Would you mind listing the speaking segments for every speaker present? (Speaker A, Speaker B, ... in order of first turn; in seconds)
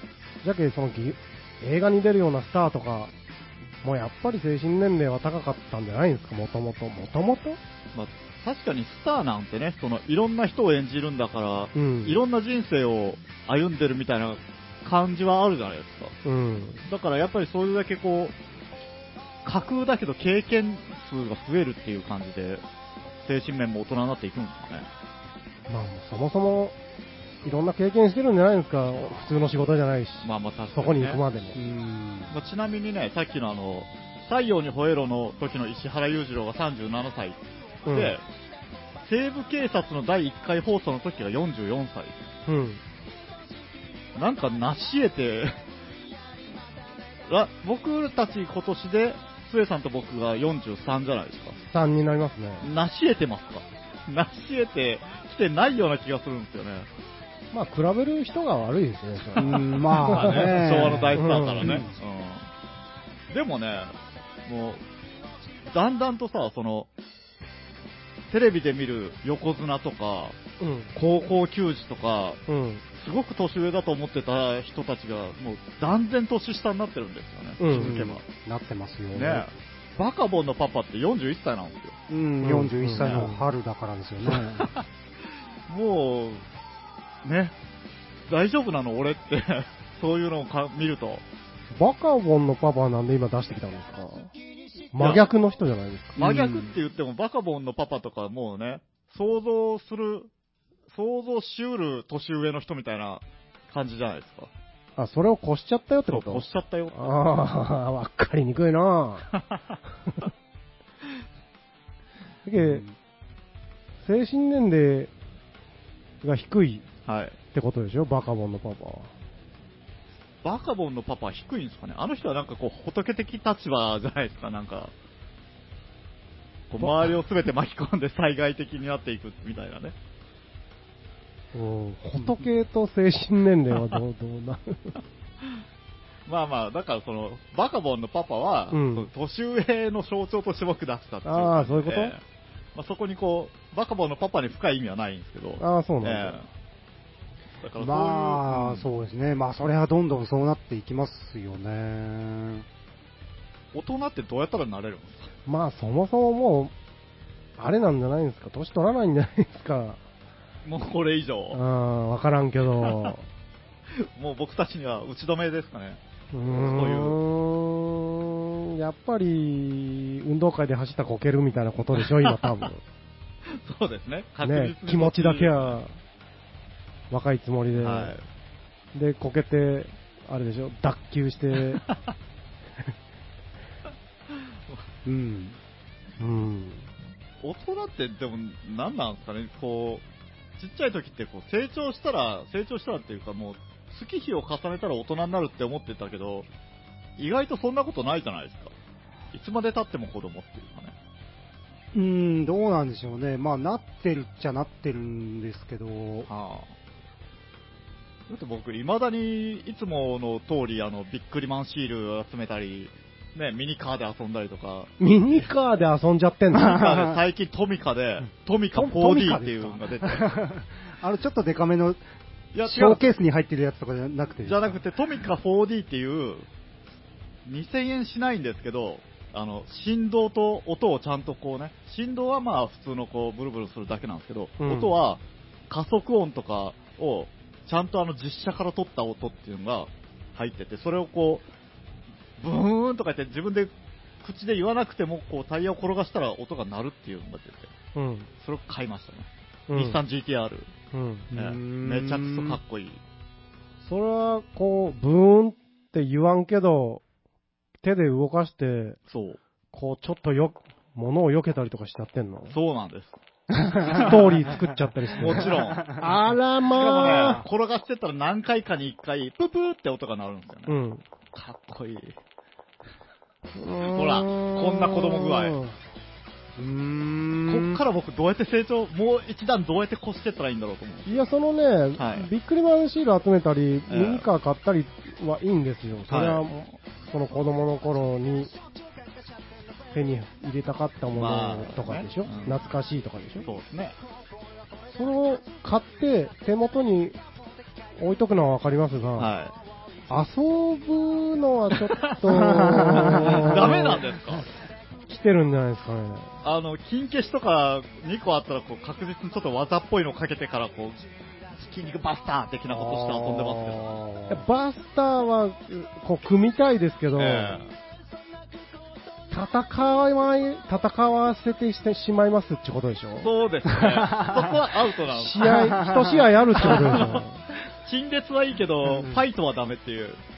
Speaker A: 0.4-3.1, 3.8-7.6, 11.8-12.2, 16.2-16.8, 25.7-26.8, 27.4-31.6, 37.9-38.2, 42.5-42.8, 51.7-52.7, 57.5-61.8, 70.6-70.9, 72.5-72.8, 77.6-78.0, 82.4-83.4, 91.7-94.3, 94.9-96.2, 105.0-109.3, 112.5-112.8, 114.0-115.1, 116.2-116.9, 117.5-119.1, 131.5-135.0, 138.7-139.1, 141.2-142.2, 145.6-146.4, 155.5-156.7, 157.6-160.0, 161.5-163.2, 166.3-172.8, 174.4-175.9, 177.1-178.1, 178.9-181.8, 186.2-186.9, 215.0-216.9, 234.6-234.9, 247.9-248.3, 249.7-250.0, 250.9-251.3, 253.8-257.0, 257.8-259.0, 259.7-262.6, 263.9-267.4, 270.7-271.0, 273.6-275.8, 281.1-286.6, 287.1-288.5, 289.9-293.5, 294.9-297.2, 298.0-299.3, 300.1-304.0, 305.1-306.3, 314.3-317.6, 319.3-323.3, 325.1-327.4
Speaker B: 7.9-16.1, 16.9-18.4, 19.4-22.6, 23.2-24.9, 30.2-31.2, 32.3-38.2, 39.0-42.2, 44.2-45.6, 47.3-51.6, 52.6-56.9, 60.0-62.5, 63.3-64.8, 65.7-66.9, 68.3-70.4, 70.9-72.4, 72.9-78.2, 79.1-82.0, 83.0-83.3, 84.2-84.8, 85.7-86.5, 87.2-87.5, 88.3-91.2, 95.0-95.2, 96.2-100.3, 100.9-104.5, 106.1-107.0, 109.3-109.6, 117.1-117.4, 120.4-124.9, 126.7-129.9, 136.3-142.2, 142.8-146.5, 147.6-148.9, 153.7-155.3, 160.7-161.6, 162.8-163.1, 164.0-167.2, 172.0-172.4, 173.6-175.8, 177.8-178.2, 181.8-182.1, 184.3-184.9, 187.4-190.1, 190.6-196.5, 197.2-198.7, 199.3-201.0, 206.3-206.7, 208.3-215.4, 216.5-220.3, 222.5-223.2, 224.4-226.5, 227.5-241.5, 242.4-247.7, 248.4-250.7, 251.3-253.0, 259.1-259.4, 262.5-263.2, 263.8-264.1, 265.2-266.0, 266.7-270.8, 271.3-272.1, 273.9-275.6, 277.5-281.2, 282.0-282.3, 283.9-284.3, 286.1-286.8, 291.1-292.6, 293.4-294.0, 299.2-299.6, 301.8-302.2, 303.1-304.5, 306.4-314.0, 317.2-317.7, 323.2-325.8, 326.6-327.2, 327.9-330.2
Speaker C: 31.6-32.3, 59.4-61.9, 77.7-79.5, 82.1-84.7, 96.2-96.7, 112.6-112.9, 147.8-152.7, 185.1-185.6, 201.9-206.3, 216.6-217.1, 218.7-222.0, 222.6-224.8, 251.3-252.6, 263.7-264.0, 265.5-266.0, 276.6-277.8, 302.3-303.6, 312.7-314.4, 323.8-324.4, 325.5-326.2, 328.9-329.2